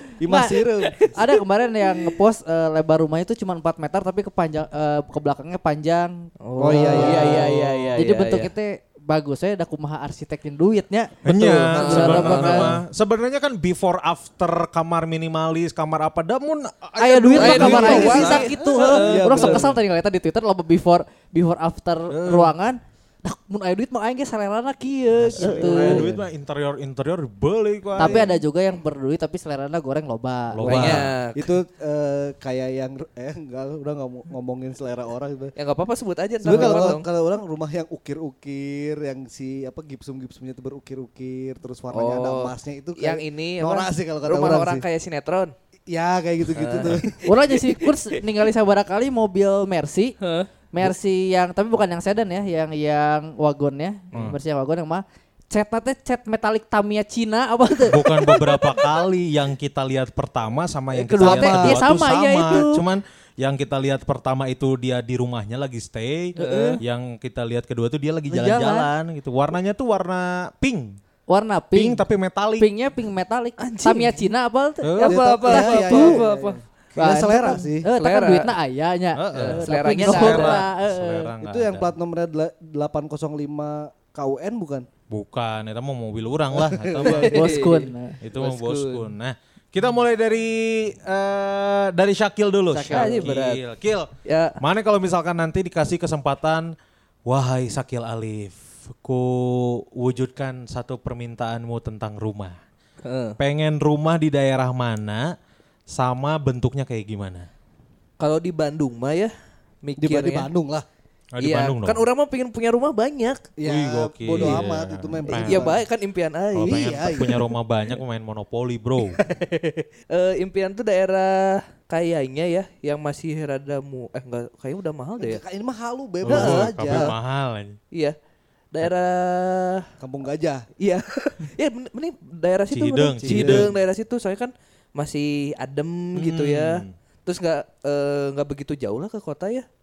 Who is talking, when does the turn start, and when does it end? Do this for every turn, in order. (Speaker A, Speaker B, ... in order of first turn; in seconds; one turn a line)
Speaker A: 0.2-1.1
Speaker B: 0.3-11.2
Speaker C: 0.8-1.3
Speaker C: 1.9-2.1
Speaker C: 6.4-8.5
Speaker A: 6.6-8.0
Speaker D: 11.2-18.6
Speaker C: 11.3-12.7
Speaker B: 11.7-12.7
Speaker B: 17.0-26.1
Speaker C: 17.4-19.7
Speaker A: 17.4-19.8
Speaker D: 22.1-22.5
Speaker D: 25.2-28.3
Speaker A: 25.4-26.2
Speaker C: 25.7-26.0
Speaker B: 28.0-30.9
Speaker A: 28.0-28.4
Speaker D: 30.5-31.1
Speaker C: 30.6-31.6
Speaker A: 30.7-35.5
Speaker C: 35.6-37.1
Speaker A: 36.4-44.9
Speaker B: 36.5-36.9
Speaker C: 41.9-45.5
Speaker A: 45.9-47.3
Speaker C: 46.5-47.9
Speaker B: 47.3-50.2
Speaker C: 50.2-50.5
Speaker B: 50.7-58.8
Speaker D: 57.9-71.0
Speaker B: 60.9-62.8
Speaker A: 61.2-61.8
Speaker B: 66.4-66.8
Speaker C: 66.4-66.8
Speaker B: 68.3-68.9
Speaker B: 71.3-72.0
Speaker D: 71.7-72.7
Speaker B: 72.6-76.2
Speaker C: 73.6-74.2
Speaker D: 74.8-75.2
Speaker C: 75.0-76.6
Speaker A: 75.1-77.9
Speaker B: 77.0-81.3
Speaker C: 78.0-78.5
Speaker D: 79.2-81.9
Speaker C: 79.3-80.6
Speaker A: 81.4-84.9
Speaker D: 85.1-87.6
Speaker A: 86.5-87.3
Speaker C: 87.0-89.1
Speaker B: 87.3-88.2
Speaker D: 88.2-96.7
Speaker B: 92.7-93.3
Speaker C: 92.9-93.6
Speaker C: 94.2-94.6
Speaker D: 97.3-102.6
Speaker C: 103.0-103.4
Speaker D: 103.4-105.3
Speaker D: 105.9-107.5
Speaker C: 108.2-109.3
Speaker C: 109.8-110.5
Speaker A: 110.0-110.8
Speaker D: 111.3-112.0
Speaker C: 111.4-113.5
Speaker A: 113.6-115.8
Speaker D: 113.6-115.8
Speaker C: 114.3-114.6
Speaker C: 115.3-117.4
Speaker D: 116.5-119.2
Speaker A: 116.6-117.5
Speaker C: 119.2-125.4
Speaker A: 125.2-127.1
Speaker D: 126.3-127.8
Speaker C: 126.3-127.1
Speaker C: 128.7-129.9
Speaker A: 130.0-130.7
Speaker C: 130.8-139.7
Speaker D: 132.7-133.7
Speaker A: 133.2-133.7
Speaker D: 136.2-136.9